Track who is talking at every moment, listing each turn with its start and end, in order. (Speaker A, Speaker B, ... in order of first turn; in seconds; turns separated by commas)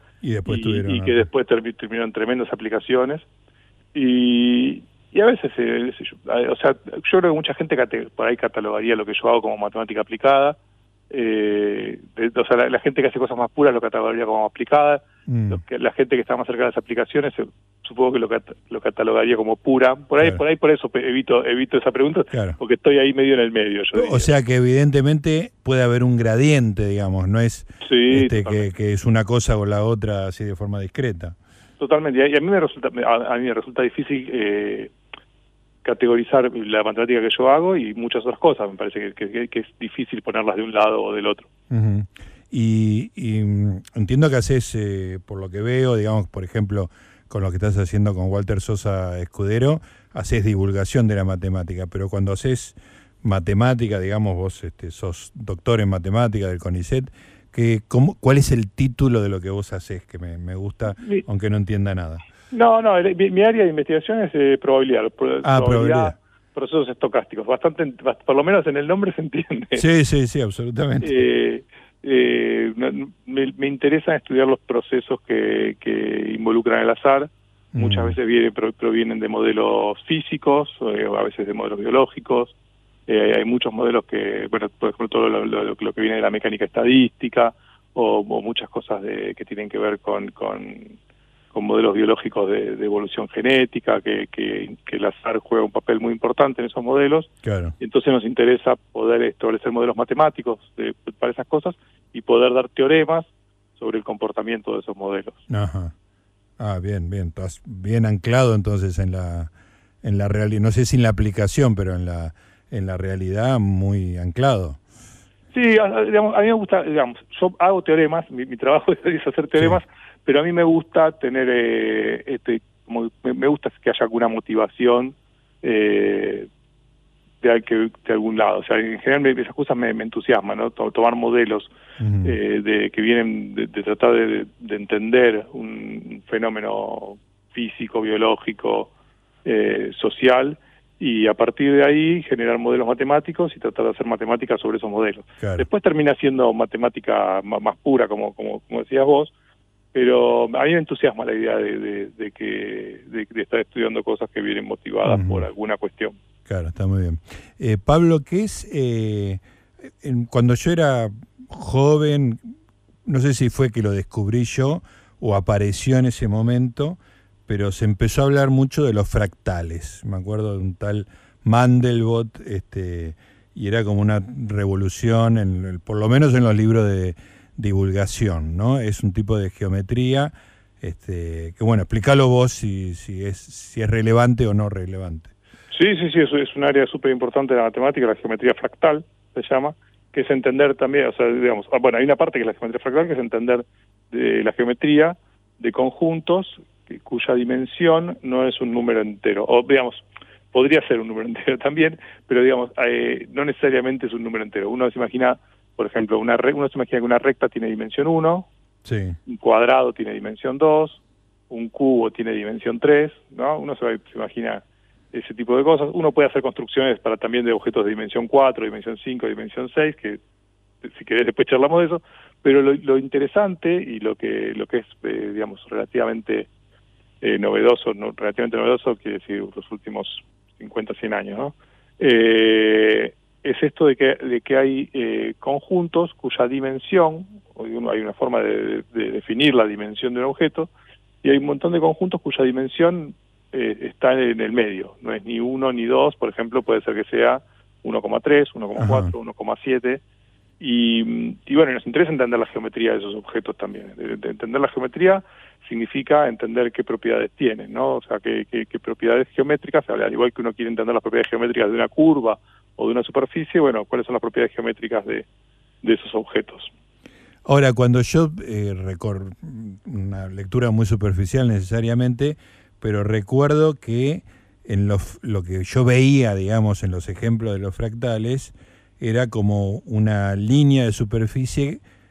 Speaker A: 0.2-1.3, Speaker B: 0.5-3.2, Speaker B: 3.9-10.6, Speaker B: 11.1-24.3, Speaker A: 15.3-15.6, Speaker A: 22.3-22.6, Speaker A: 23.9-31.3, Speaker B: 27.8-28.7, Speaker B: 31.8-34.9, Speaker B: 35.8-41.5, Speaker A: 41.7-62.2, Speaker B: 61.0-61.2, Speaker B: 62.5-69.8, Speaker A: 65.4-66.2, Speaker A: 69.7-71.3, Speaker B: 71.0-82.5, Speaker A: 77.7-78.2, Speaker B: 83.1-90.9, Speaker B: 91.5-105.4, Speaker A: 97.4-97.8, Speaker A: 105.5-105.9, Speaker A: 106.6-109.5, Speaker A: 110.0-114.8, Speaker B: 115.5-126.5, Speaker B: 127.4-131.7, Speaker A: 132.0-132.4, Speaker B: 132.2-138.9, Speaker B: 139.4-149.3, Speaker A: 145.4-145.7, Speaker B: 149.9-156.2, Speaker A: 155.0-155.5, Speaker A: 156.5-159.4, Speaker A: 160.0-162.5, Speaker A: 163.1-185.3, Speaker B: 185.7-208.5, Speaker A: 208.8-209.2, Speaker B: 209.3-220.2, Speaker B: 220.8-226.5, Speaker B: 227.2-240.7, Speaker B: 241.2-250.0, Speaker A: 248.8-249.1, Speaker B: 250.6-265.2, Speaker B: 265.8-266.7, Speaker A: 267.4-281.8